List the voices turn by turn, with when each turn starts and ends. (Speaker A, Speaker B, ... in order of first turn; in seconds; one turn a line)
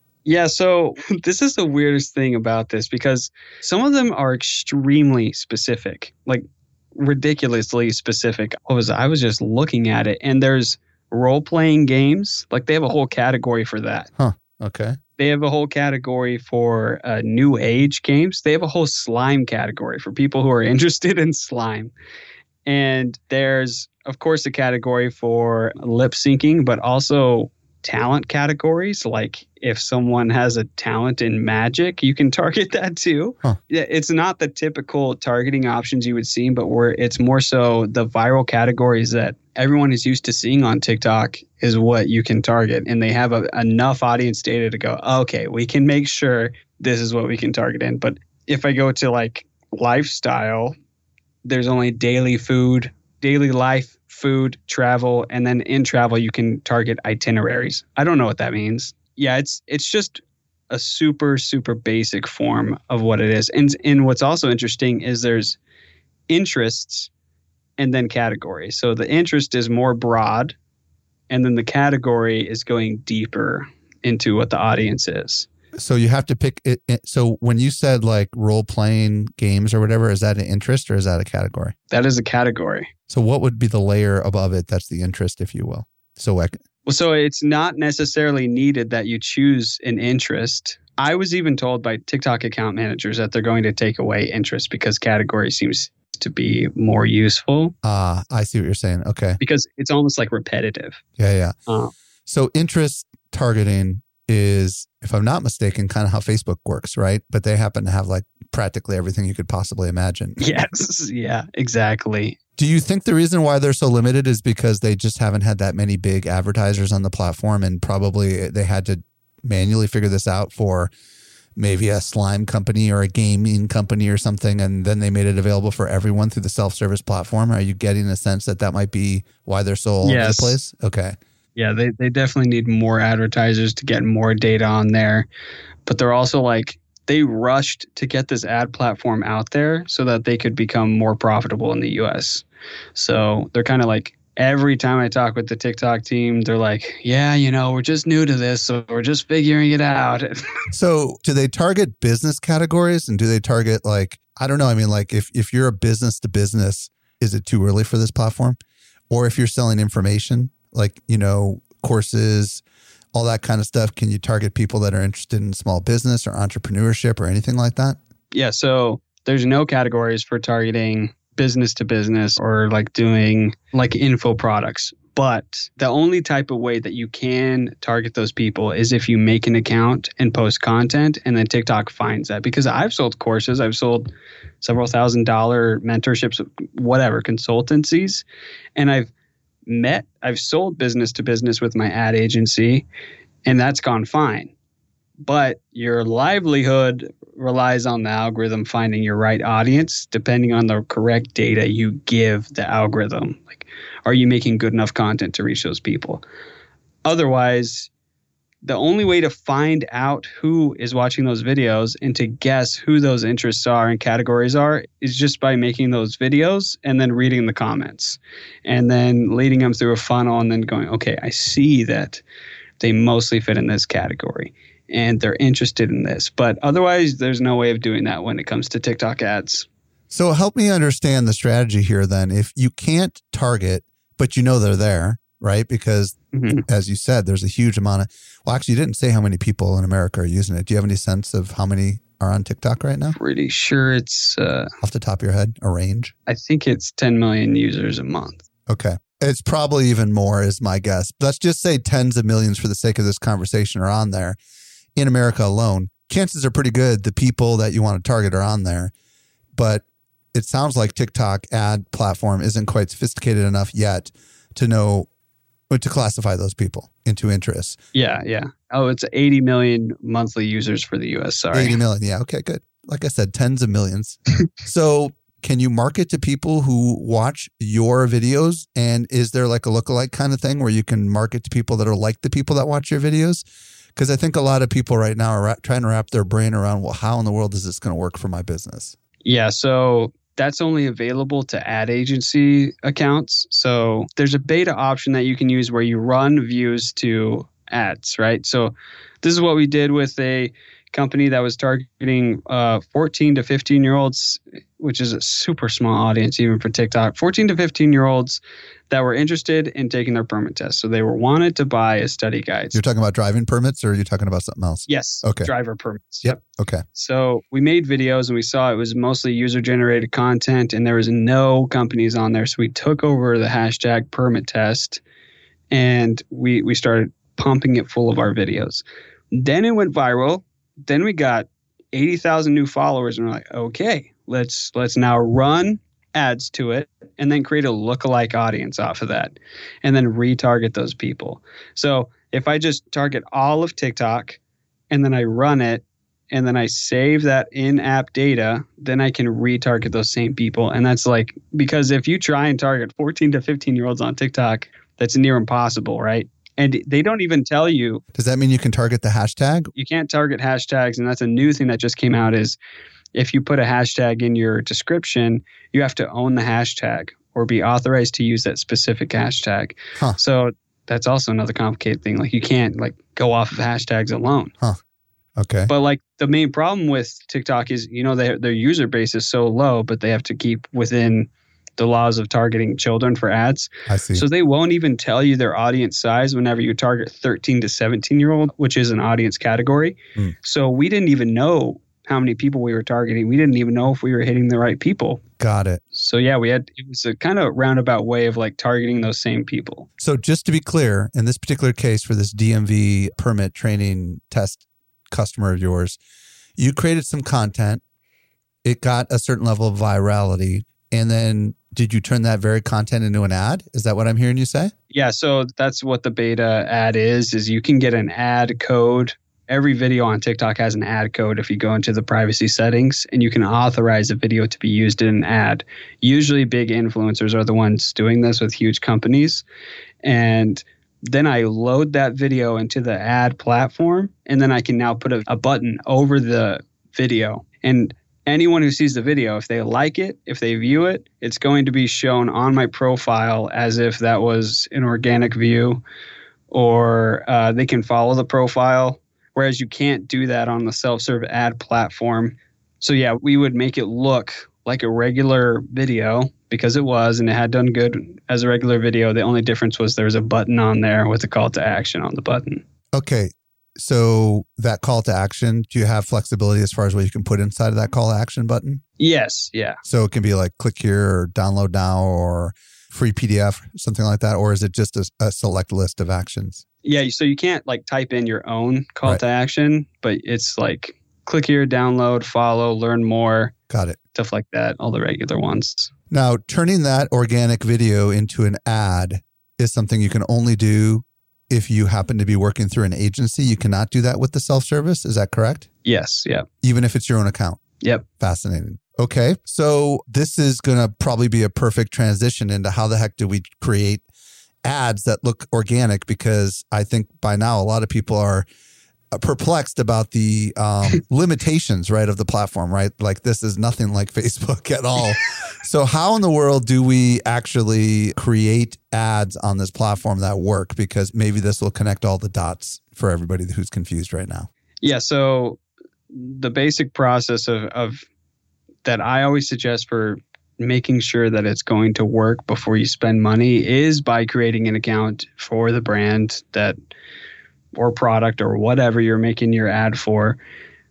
Speaker A: 0.2-14.1
Speaker B: 14.2-15.0
Speaker A: 15.2-21.9
Speaker A: 22.6-50.8
Speaker A: 51.4-65.6
Speaker A: 66.3-67.1
Speaker A: 67.8-70.5
Speaker A: 71.3-75.5
Speaker B: 75.8-81.8
Speaker A: 81.9-82.9
Speaker B: 83.1-86.6
Speaker A: 86.9-97.8
Speaker B: 97.8-99.4
Speaker A: 99.4-101.0
Speaker B: 101.2-101.6
Speaker A: 101.7-101.9
Speaker B: 102.3-110.6
Speaker A: 110.4-112.4
Speaker B: 112.6-120.9
Speaker B: 121.6-131.2
Speaker A: 130.0-130.6
Speaker A: 131.6-135.3
Speaker A: 135.9-150.5
Speaker B: 150.7-158.6
Speaker B: 159.1-162.6
Speaker B: 163.1-168.0
Speaker A: 168.3-184.1
Speaker A: 184.6-189.1
Speaker A: 189.7-192.8
Speaker A: 193.4-194.5
Speaker A: 195.2-206.2
Speaker A: 207.1-207.9
Speaker A: 208.6-222.2
Speaker A: 222.8-229.7
Speaker B: 230.1-243.2
Speaker A: 236.3-236.6
Speaker A: 243.1-244.7
Speaker B: 244.8-246.1
Speaker A: 246.3-248.4
Speaker B: 248.7-254.4
Speaker B: 254.9-258.9
Speaker B: 259.6-265.1
Speaker B: 265.7-267.8
Speaker A: 267.9-271.8
Speaker B: 271.5-283.4
Speaker B: 283.9-289.0
Speaker A: 289.2-312.8
Speaker B: 312.7-315.5
Speaker A: 314.9-316.4
Speaker B: 316.2-316.9
Speaker A: 316.9-325.0
Speaker A: 325.7-344.4
Speaker A: 344.9-358.0
Speaker B: 358.1-359.7
Speaker A: 359.8-362.6
Speaker A: 363.1-374.5
Speaker B: 375.4-375.7
Speaker A: 375.7-395.2
Speaker B: 383.9-384.2
Speaker B: 395.4-395.8
Speaker A: 395.9-399.9
Speaker B: 400.0-406.0
Speaker B: 406.6-407.8
Speaker B: 408.6-414.7
Speaker A: 414.9-429.4
Speaker A: 430.0-445.8
Speaker A: 446.5-462.6
Speaker B: 462.9-468.8
Speaker A: 469.0-469.8
Speaker B: 469.8-476.6
Speaker A: 476.8-483.5
Speaker B: 483.7-484.0
Speaker A: 484.1-485.9
Speaker B: 486.1-495.7
Speaker A: 495.9-496.5
Speaker B: 496.6-497.6
Speaker B: 498.2-504.0
Speaker B: 504.6-508.4
Speaker B: 509.1-524.5
Speaker A: 524.8-525.6
Speaker A: 526.1-528.1
Speaker A: 528.9-536.8
Speaker A: 537.7-540.4